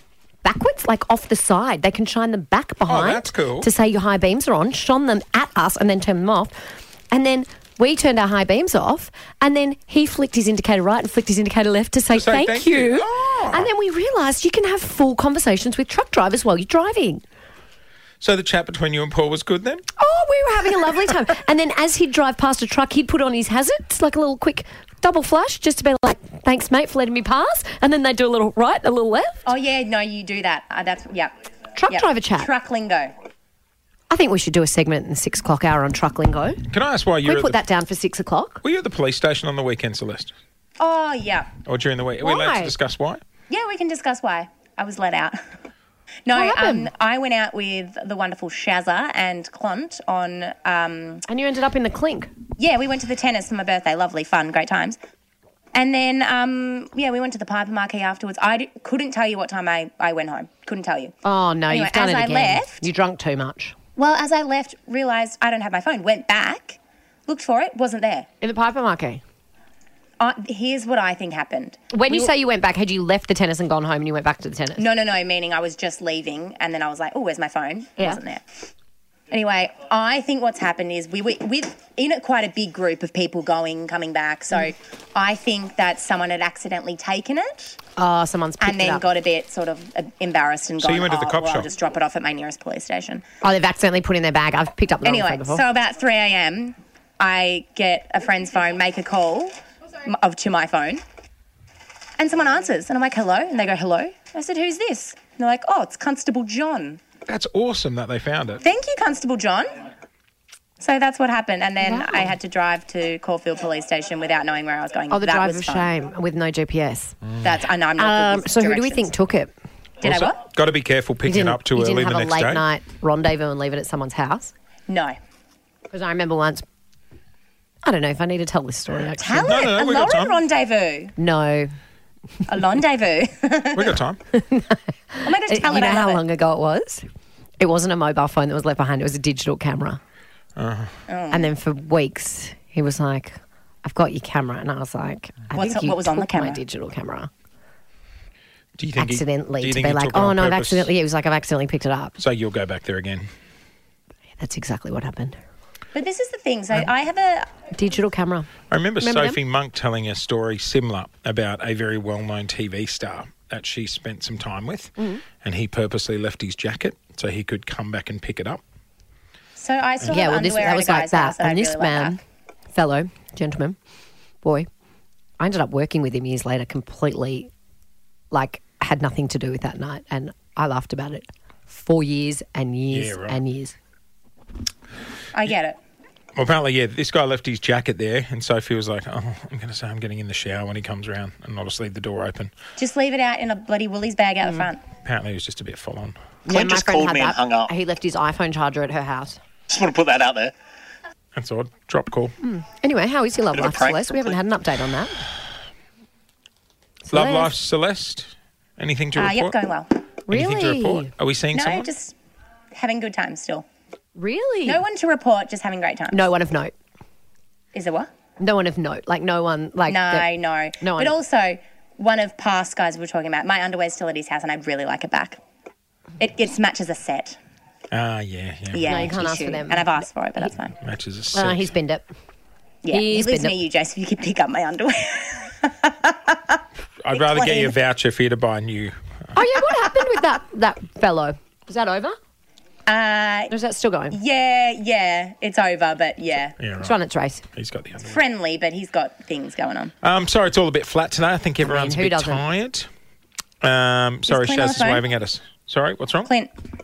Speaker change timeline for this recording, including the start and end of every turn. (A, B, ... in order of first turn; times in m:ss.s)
0:00.4-0:17.2 A
0:02.9-0:03.7 B
0:12.1-0:13.7 B
0:18.2-0:19.8 B
0:20.0-0:29.4 A
0:29.4-0:31.3 C
0:31.8-0:32.5 A
0:31.9-0:33.1 C
0:34.1-0:36.6 A
0:36.7-0:37.6 B
0:37.2-0:38.6 A
0:38.6-0:40.3 B
0:40.8-0:41.5 C
0:41.6-0:43.2 B
0:42.2-0:42.7 A
0:43.5-0:45.4 C
0:46.2-0:51.2 C
0:46.3-0:46.9 A
0:51.3-0:52.3 A
0:52.6-0:55.0 C
0:55.7-1:01.1 C
1:01.2-1:03.7 A
1:01.7-1:02.8 C
1:04.0-1:08.3 C
1:08.4-1:09.2 A
1:10.2-1:12.3 C
1:11.9-1:14.8 A
1:14.8-1:18.4 C
1:19.3-1:27.7 C
1:28.0-1:29.1 A
1:28.6-1:33.2 C
1:30.8-1:31.7 B
1:33.4-1:35.6 A
1:35.0-1:41.0 C
1:42.2-1:47.0 C
1:47.3-1:48.6 B
1:48.6-1:49.8 C
1:50.8-1:55.9 C
1:51.8-1:52.3 A
1:55.1-1:57.2 A
1:57.4-1:59.1 C
1:58.0-1:59.5 A
2:00.0-2:00.4 C
2:00.0-2:02.7 B
2:01.2-2:04.5 A
2:04.9-2:05.2 C
2:05.9-2:06.6 A
2:07.8-2:09.8 A
2:09.2-2:11.1 C
2:09.4-2:10.4 B
2:11.2-2:11.7 A
2:12.5-2:13.9 C
2:13.7-2:14.2 B
2:14.3-2:17.0 A
2:15.2-2:16.2 C
2:17.6-2:20.0 A
2:20.6-2:20.9 B
2:21.1-2:21.5 C
2:21.3-2:27.3 A
2:25.5-2:26.6 C
2:28.8-2:30.9 B
2:29.0-2:32.2 A
2:32.2-2:33.3 B
2:34.4-2:35.4 A
2:35.9-2:37.5 C
2:37.7-2:38.5 A
2:38.7-2:48.6 B
2:39.0-2:39.4 A
2:49.6-2:52.2 C
2:50.1-2:52.2 A
2:52.7-2:53.8 A
2:55.4-2:57.5 A
2:58.3-3:03.7 A
3:02.9-3:03.4 B
3:05.3-3:05.8 C
3:06.3-3:12.5 B
3:12.8-3:14.8 C
3:14.4-3:14.7 A
3:15.0-3:16.2 B
3:16.5-3:19.4 A
3:16.5-3:17.7 D
3:19.7-3:20.5 D
3:21.3-3:22.3 B
3:22.4-3:25.2 A
3:23.5-3:24.4 D
3:27.0-3:27.5 A
3:27.1-3:29.5 B
3:29.2-3:30.0 C
3:30.3-3:31.1 A
3:30.3-3:31.9 B
3:31.5-3:32.1 C
3:32.7-3:33.6 C
3:34.2-3:34.8 A
3:34.6-3:36.2 C
3:36.1-3:36.7 A
3:37.7-3:38.1 C
3:38.4-3:40.3 A
3:39.9-3:45.4 C
3:40.8-3:41.2 A
3:46.2-3:47.4 C
3:47.9-3:49.2 B
3:48.7-3:50.8 C
3:48.9-3:50.0 A
3:50.8-3:51.7 B
3:51.3-3:52.0 A
3:52.8-3:56.6 C
3:52.9-3:53.6 A
3:57.0-3:59.4 B
3:57.1-3:57.7 C
3:59.3-4:02.1 A
4:02.9-4:03.5 C
4:03.5-4:04.2 A
4:04.1-4:06.5 C
4:06.6-4:07.0 B
4:06.8-4:07.4 A
4:07.5-4:08.2 B
4:08.0-4:09.9 C
4:10.0-4:12.9 B
4:11.6-4:12.4 A
4:13.6-4:16.3 B
4:14.3-4:15.0 C
4:16.2-4:16.5 C